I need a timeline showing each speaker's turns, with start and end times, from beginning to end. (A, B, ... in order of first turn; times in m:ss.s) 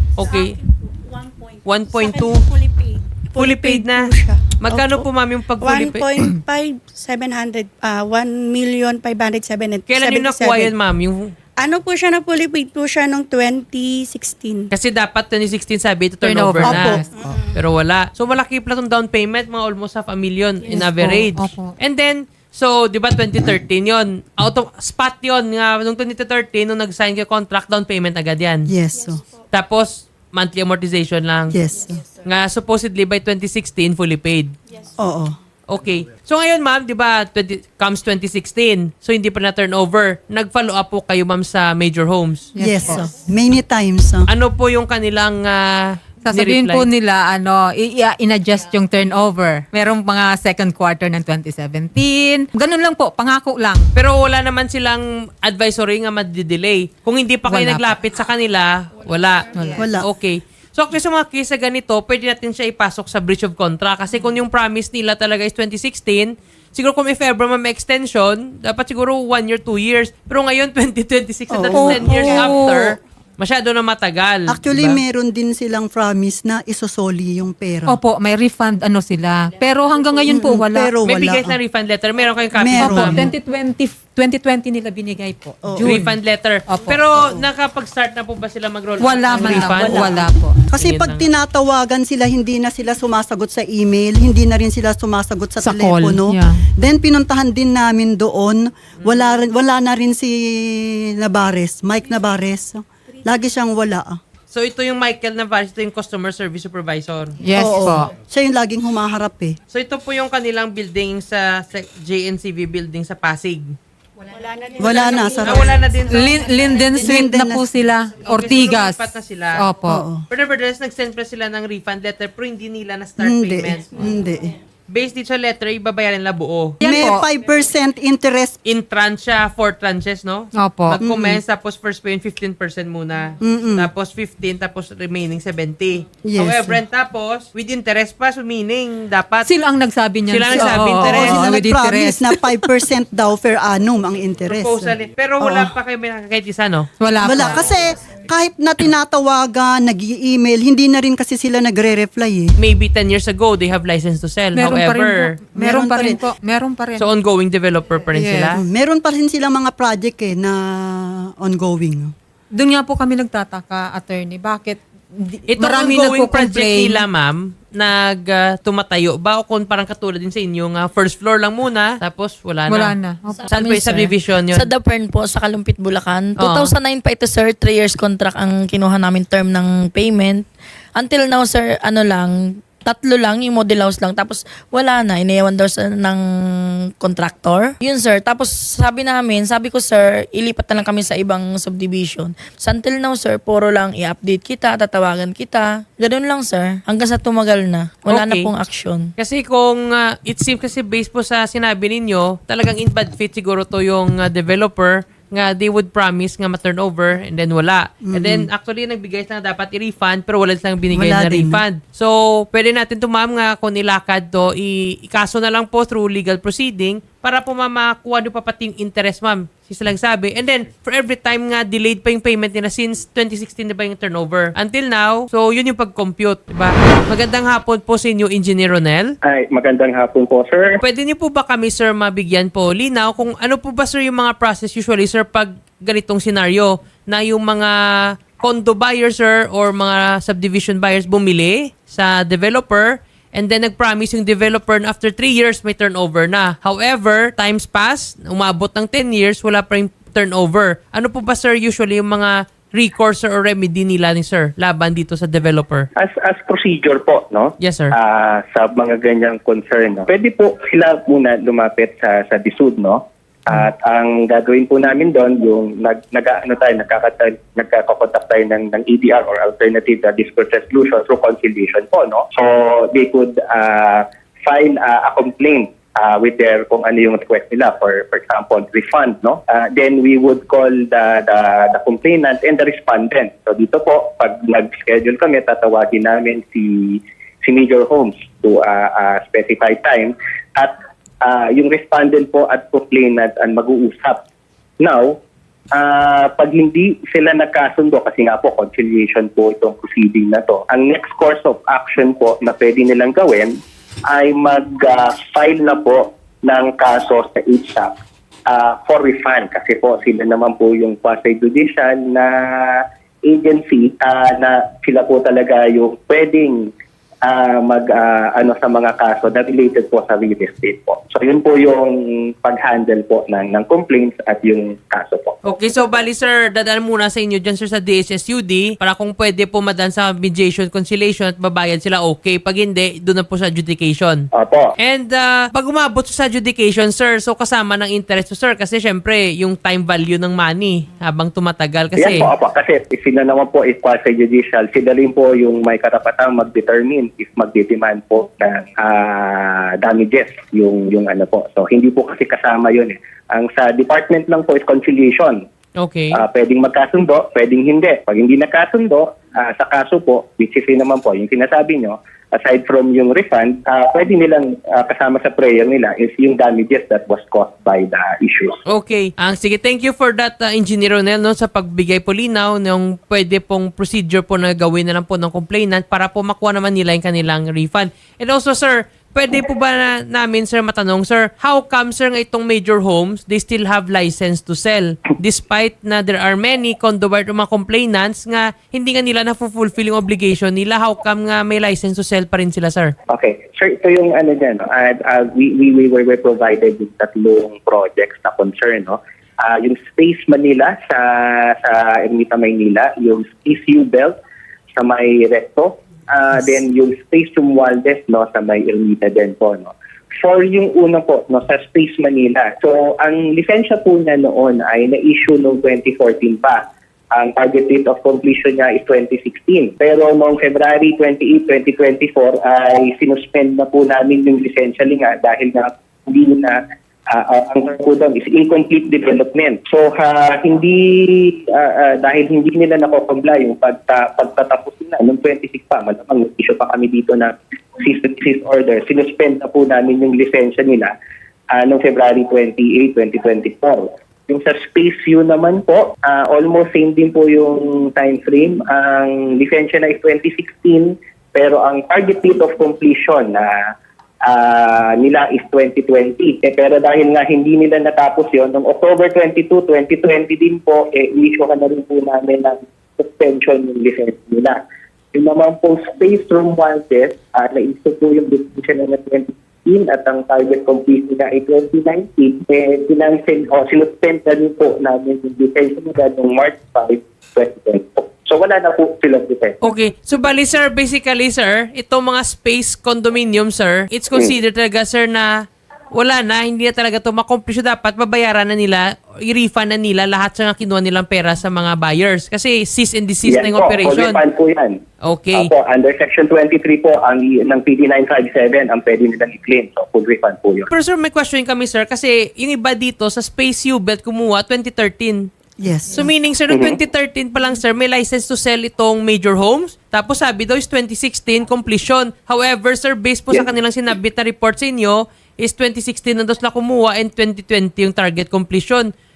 0:00.2-0:00.6 A
0:01.6-0:02.5 A
0:02.0-0:05.0 B
0:03.4-0:06.2 A
0:05.6-0:10.6 B
0:09.9-0:11.3 A
0:11.6-0:14.6 B
0:14.7-0:28.7 A
0:16.2-0:17.2 C
0:16.6-0:17.0 D
0:20.7-0:21.7 C
0:28.7-0:29.2 D
0:29.5-0:31.6 A
0:31.5-0:32.0 D
0:32.2-0:34.5 A
0:35.0-0:35.4 D
0:35.7-0:42.5 A
0:42.5-0:43.1 C
0:42.6-0:44.3 D
0:44.3-0:46.9 A
0:46.2-0:53.9 C
0:53.9-1:15.0 A
0:57.4-0:58.0 C
0:59.5-0:59.8 C
0:59.8-1:00.1 D
1:11.5-1:12.5 D
1:11.7-1:12.9 C
1:14.5-1:18.0 D
1:17.9-1:21.0 C
1:20.2-1:21.6 D
1:21.0-1:23.3 A
1:22.5-1:23.3 D
1:22.8-1:27.0 C
1:25.6-1:25.9 D
1:25.8-1:31.3 A
1:29.0-1:30.6 C
1:29.3-1:44.2 D
1:35.6-1:36.6 C
1:39.0-1:39.4 A
1:44.5-1:47.4 A
1:47.4-1:48.1 C
1:47.6-1:49.6 D
1:49.7-1:53.8 A
1:54.3-1:55.4 B
1:54.8-1:55.8 D
1:54.9-1:56.9 A
1:56.1-2:00.0 C
1:57.0-1:57.6 D
1:58.2-1:59.6 A
1:59.9-2:00.2 D
2:00.3-2:04.0 A
2:03.2-2:04.6 D
2:04.9-2:06.8 A
2:06.8-2:07.2 C
2:06.8-2:08.6 D
2:08.6-2:19.5 A
2:10.5-2:11.0 C
2:11.0-2:11.4 D
2:13.4-2:13.9 D
2:16.2-2:16.8 D
2:19.4-2:22.4 C
2:20.3-2:21.5 A
2:20.6-2:25.7 D
2:24.5-2:27.6 A
2:27.0-2:27.6 C
2:27.2-2:32.5 D
2:32.6-2:35.4 A
2:34.5-2:37.1 C
2:35.5-2:36.2 D
2:37.0-2:38.6 A
2:38.1-2:38.6 C
2:38.6-2:42.1 D
2:42.5-2:47.0 C
2:45.5-2:54.7 A
2:52.7-2:54.1 C
2:53.5-3:06.2 E
2:56.4-2:56.7 A
3:07.0-3:19.1 E
3:18.0-3:18.5 A
3:19.2-3:49.1 A
3:28.0-3:28.5 D
3:30.9-3:31.6 D
3:49.2-3:50.8 F
3:50.8-3:57.7 A
3:58.4-4:15.9 A
4:16.0-4:54.2 F
4:17.6-4:18.0 A
4:54.8-4:55.2 F
4:55.7-5:03.5 F
5:04.1-5:07.9 F
5:08.5-5:16.7 F
5:17.2-5:25.5 F
5:25.4-5:34.3 A
5:34.3-5:34.7 F
5:34.8-5:42.3 A
5:42.0-5:55.4 F
5:55.8-5:56.2 A
5:56.1-6:08.6 F
6:08.7-6:32.9 A
6:33.1-6:44.2 F
6:44.8-6:56.6 F
6:57.1-7:06.6 F
7:07.1-7:20.9 F
7:21.5-7:33.5 F
7:34.3-7:44.6 F
7:45.1-7:59.6 F
7:59.6-8:05.3 A
8:05.9-8:14.2 A
8:13.2-8:14.8 F
8:15.0-8:15.5 A
8:15.3-8:20.7 F
8:20.7-8:25.3 A
8:25.6-8:26.0 D
8:25.9-8:38.9 A
8:26.5-8:26.8 F